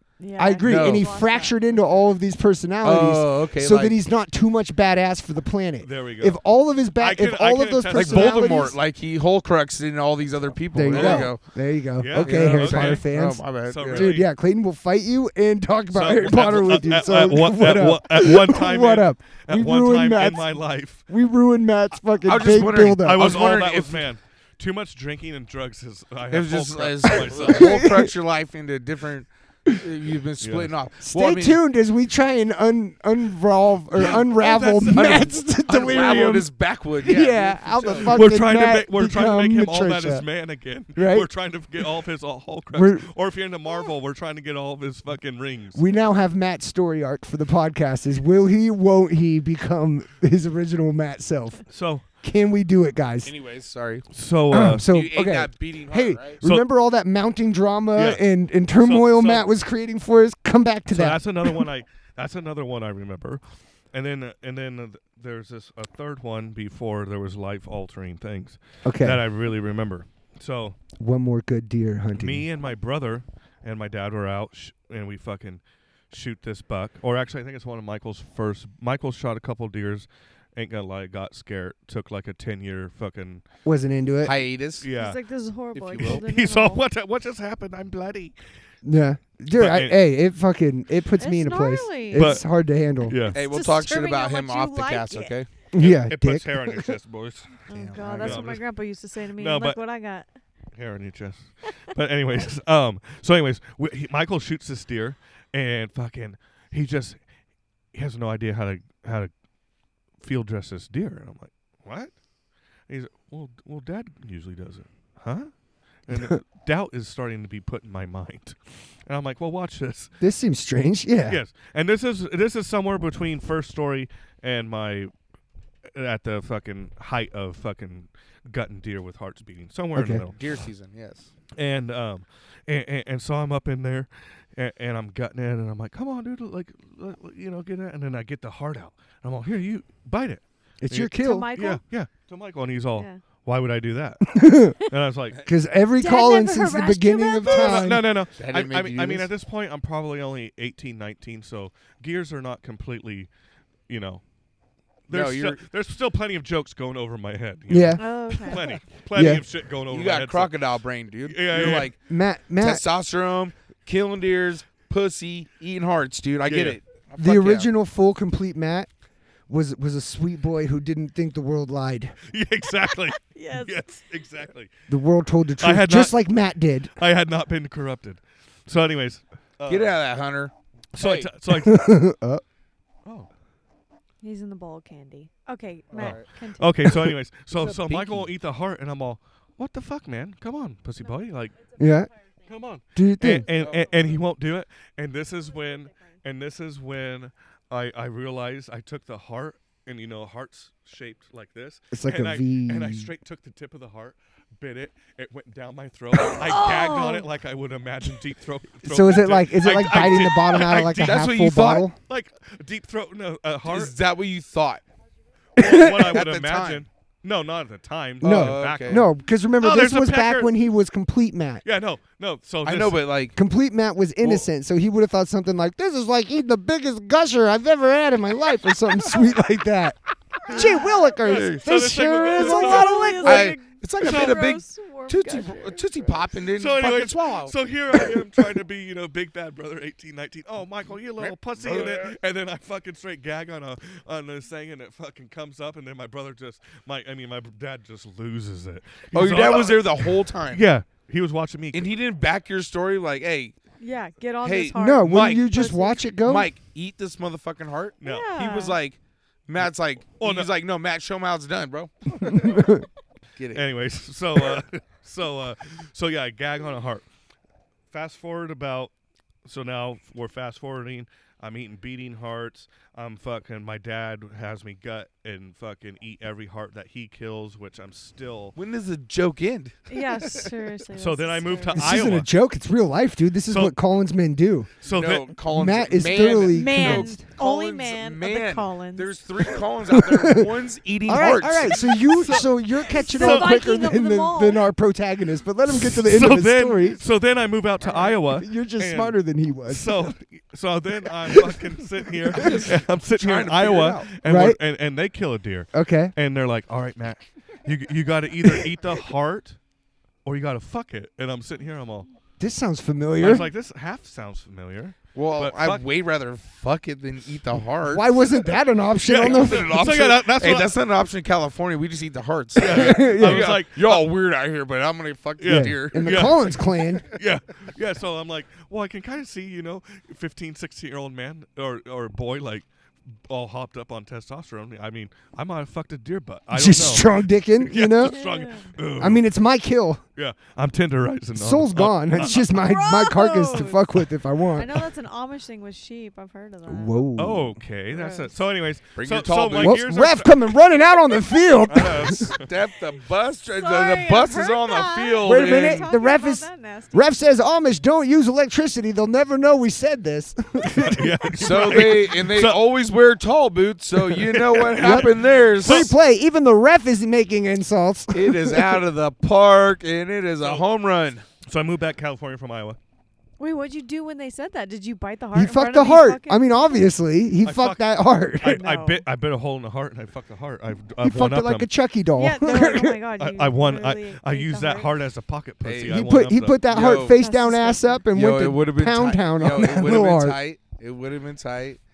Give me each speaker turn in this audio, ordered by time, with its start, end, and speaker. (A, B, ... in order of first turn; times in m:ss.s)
0:00.2-0:01.7 A
0:00.4-0:08.8 B
0:00.6-0:01.1 C
0:02.8-0:04.0 C
0:05.8-0:06.4 D
0:07.0-0:08.6 D
0:07.9-0:11.4 C
0:10.7-0:23.4 B
0:10.9-0:11.3 D
0:12.0-0:13.0 D
0:12.2-0:14.1 C
0:13.6-0:14.3 D
0:15.9-0:21.0 D
0:22.2-0:24.0 C
0:22.5-0:27.8 D
0:26.3-0:31.6 C
0:27.1-0:28.1 B
0:30.4-0:30.7 D
0:31.0-0:36.5 B
0:33.9-0:36.3 D
0:34.9-0:38.2 C
0:37.0-0:40.2 B
0:38.0-0:45.8 D
0:41.0-0:41.3 B
0:42.7-0:43.1 B
0:45.7-0:51.6 B
0:51.7-0:52.0 D
0:52.2-0:53.3 B
0:53.2-0:54.1 C
0:54.1-0:54.9 D
0:54.5-1:01.6 B
0:54.8-0:56.4 C
0:58.0-0:58.2 D
0:58.8-0:59.5 D
1:00.9-1:03.4 D
1:03.9-1:10.8 D
1:08.8-1:09.2 B
1:11.0-1:12.4 B
1:12.1-1:23.4 D
1:23.6-1:24.3 B
1:24.2-1:24.9 C
1:24.8-1:25.2 D
1:24.9-1:26.8 A
1:25.7-1:26.2 C
1:26.0-1:28.3 D
1:28.8-1:33.2 B
1:29.5-1:30.0 D
1:31.2-1:32.4 A
1:32.1-1:32.4 D
1:33.0-1:33.4 D
1:33.3-1:35.5 C
1:33.3-1:35.4 A
1:35.7-1:37.0 B
1:35.8-1:37.6 D
1:37.7-1:40.3 A
1:37.7-1:38.5 C
1:38.2-1:38.6 D
1:39.4-1:39.8 D
1:40.7-1:47.2 D
1:47.9-1:49.3 D
1:50.2-1:52.1 D
1:52.9-1:55.5 D
1:56.0-1:58.6 D
1:59.1-2:00.1 D
2:00.2-2:01.4 B
2:01.3-2:05.1 D
2:05.9-2:10.4 D
2:09.9-2:10.2 B
2:10.3-2:11.3 C
2:11.6-2:25.4 D
2:20.8-2:21.5 B
2:21.2-2:21.8 A
2:24.3-2:24.8 B
2:25.4-2:28.1 B
2:26.0-2:27.9 A
2:27.4-2:33.3 D
2:28.4-2:29.3 C
2:33.9-2:34.2 D
2:35.1-2:40.6 D
2:35.1-2:35.6 C
2:37.7-2:38.0 B
2:38.0-2:38.6 A
2:39.1-2:39.4 B
2:39.9-2:42.0 C
2:41.2-2:41.9 D
2:41.6-2:42.8 B
2:42.6-2:47.7 C
2:46.4-2:46.8 D
2:47.2-2:48.9 B
2:49.5-2:52.2 B
2:52.3-2:54.7 D
2:53.2-2:53.8 A
2:54.9-2:56.9 B
2:55.6-2:56.2 D
2:57.0-3:00.0 D
2:59.7-3:01.3 C
3:00.9-3:01.9 D
3:01.5-3:02.4 B
3:04.2-3:06.8 A
3:05.9-3:06.2 C
3:05.9-3:11.7 D
3:07.5-3:08.3 C
3:11.8-3:12.1 B
3:12.4-3:31.3 D
3:12.9-3:13.5 B
3:13.5-3:14.2 C
3:21.9-3:23.1 B
3:26.4-3:27.2 A
3:28.8-3:32.0 B
3:31.0-3:31.8 C
3:32.1-3:33.9 D
3:33.6-3:34.8 C
3:35.6-3:36.2 B
3:35.6-3:40.5 D
3:36.1-3:36.8 C
3:38.2-3:39.0 C
3:38.2-3:41.6 B
3:41.6-3:43.0 D
3:42.6-3:43.4 C
3:43.3-3:53.6 B
3:50.5-3:53.4 D
3:51.2-3:51.6 C
3:52.3-3:56.2 A
3:53.2-3:57.5 C
3:54.0-3:54.5 D
3:56.6-4:11.9 D
4:01.2-4:02.2 C
4:09.1-4:10.6 C
4:11.7-4:13.6 C
4:13.8-4:16.0 A
4:14.4-4:15.5 C
4:14.7-4:16.5 B
4:16.2-4:22.8 C
4:18.0-4:18.3 D
4:18.0-4:18.8 A
4:19.6-4:20.5 D
4:22.4-4:22.8 B
4:23.4-4:23.7 C
4:23.5-4:27.0 D
4:27.9-4:28.9 D
4:29.4-4:38.6 D
4:38.6-4:40.5 C
4:39.9-4:41.9 A
4:41.0-4:42.3 D
4:41.7-4:44.7 B
4:43.5-4:43.7 D
4:44.8-4:45.4 D
4:44.8-4:51.8 C
4:45.5-4:47.2 B
4:46.1-4:49.1 A
4:49.9-4:50.5 B
4:51.0-4:57.0 B
4:51.6-4:52.5 D
4:52.9-4:54.6 A
4:53.1-4:53.7 D
4:55.7-5:09.6 D
4:57.8-4:58.1 C
4:58.3-5:00.1 B
5:01.3-5:01.6 B
5:02.2-5:02.7 B
5:02.3-5:04.1 C
5:04.0-5:04.6 B
5:05.7-5:06.1 B
5:10.2-5:12.1 D
5:12.4-5:13.5 B
5:13.2-5:15.8 D
5:15.1-5:18.1 C
5:17.8-5:19.8 B
5:19.0-5:20.7 D
5:19.2-5:26.6 C
5:22.6-5:24.1 D
5:22.6-5:23.5 B
5:25.4-5:32.6 D
5:25.4-5:27.1 B
5:33.3-5:39.2 D
5:36.5-5:38.2 B
5:38.0-5:38.7 A
5:39.0-5:40.0 B
5:40.2-5:42.5 D
5:41.3-5:44.7 B
5:42.3-5:43.8 A
5:44.5-5:47.0 A
5:46.7-5:47.6 B
5:47.2-5:50.4 D
5:47.9-5:48.3 A
5:49.0-5:49.8 C
5:49.6-5:52.3 B
5:51.7-5:52.4 D
5:52.3-5:55.9 C
5:53.5-5:57.1 A
5:55.2-6:02.0 B
6:00.8-6:02.6 D
6:01.4-6:05.9 C
6:04.0-6:05.9 D
6:04.8-6:08.8 B
6:08.1-6:11.2 C
6:11.4-6:12.8 D
6:13.4-6:16.9 A
6:15.3-6:18.6 B
6:17.4-6:21.7 D
6:18.4-6:19.0 A
6:21.0-6:23.0 B
6:22.2-6:24.9 A
6:23.2-6:26.6 D
6:25.6-6:26.0 C
6:25.9-6:30.4 B
6:26.7-6:27.2 C
6:27.2-6:28.0 A
6:28.1-6:31.8 C